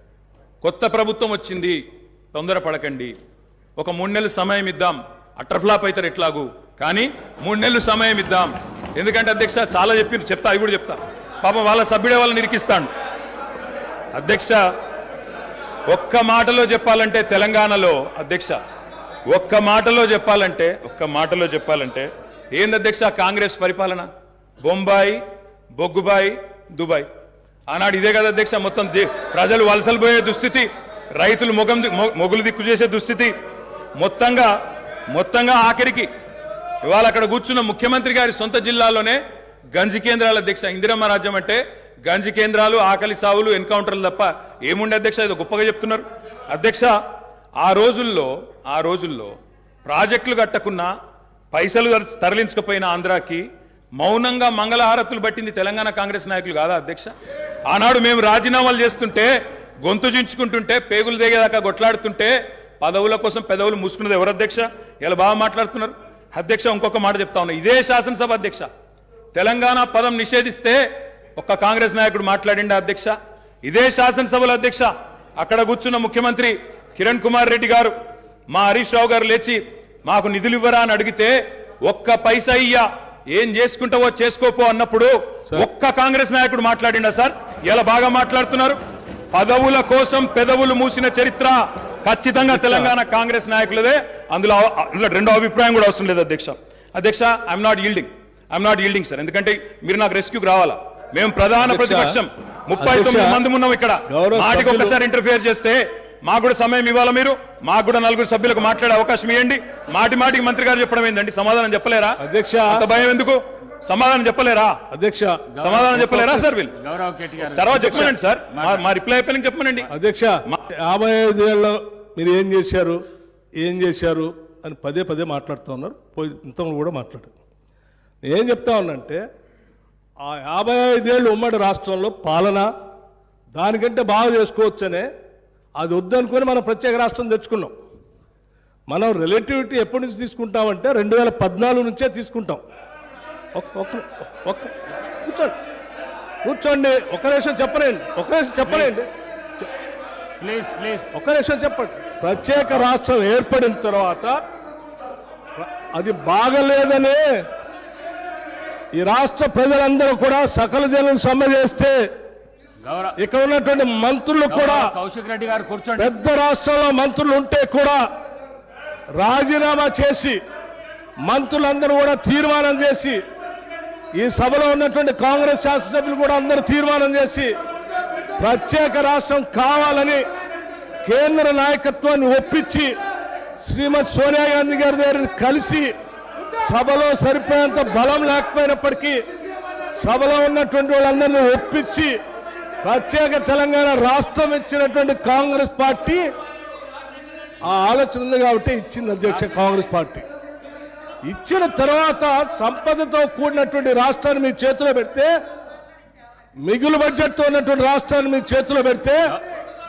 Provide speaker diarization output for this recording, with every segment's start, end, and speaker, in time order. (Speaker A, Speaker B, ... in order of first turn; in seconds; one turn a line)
Speaker A: 0.6-1.8
Speaker A: 2.3-3.1
Speaker A: 3.8-12.9
Speaker A: 14.1-14.6
Speaker A: 15.9-18.6
Speaker A: 19.3-24.1
Speaker A: 24.6-25.2
Speaker A: 25.7-27.1
Speaker A: 27.7-33.3
Speaker A: 34.0-34.5
Speaker A: 35.1-36.1
Speaker A: 36.8-39.2
Speaker A: 39.7-46.9
Speaker A: 47.6-50.9
Speaker A: 51.5-53.4
Speaker A: 54.0-57.1
Speaker A: 57.7-68.7
Speaker A: 69.3-70.8
Speaker A: 71.3-77.9
Speaker A: 78.5-88.8
Speaker A: 89.3-114.7
Speaker B: 92.4-92.9
Speaker B: 101.6-102.1
Speaker B: 102.8-103.4
Speaker B: 104.1-105.0
Speaker B: 112.2-112.8
Speaker B: 114.9-116.5
Speaker C: 115.5-116.1
Speaker A: 115.6-116.8
Speaker C: 116.7-118.8
Speaker A: 117.4-119.9
Speaker B: 117.7-118.1
Speaker B: 119.9-123.0
Speaker B: 123.6-127.3
Speaker B: 128.3-129.2
Speaker B: 130.2-132.7
Speaker B: 133.5-135.1
Speaker B: 135.8-137.7
Speaker B: 138.9-142.6
Speaker B: 143.5-145.6
Speaker B: 146.4-149.1
Speaker C: 148.7-149.0
Speaker C: 150.4-151.1
Speaker B: 151.1-154.3
Speaker B: 155.6-157.2
Speaker B: 158.9-162.0
Speaker C: 162.8-163.2
Speaker B: 163.2-164.9
Speaker C: 164.5-166.1
Speaker B: 166.0-168.0
Speaker B: 169.2-170.4
Speaker B: 171.2-173.2
Speaker B: 174.2-177.5
Speaker B: 178.4-180.2
Speaker B: 181.0-182.9
Speaker B: 183.6-185.9
Speaker B: 186.6-189.2
Speaker B: 190.0-192.2
Speaker B: 192.8-196.2
Speaker B: 197.6-200.2
Speaker B: 201.2-205.3
Speaker B: 206.6-209.3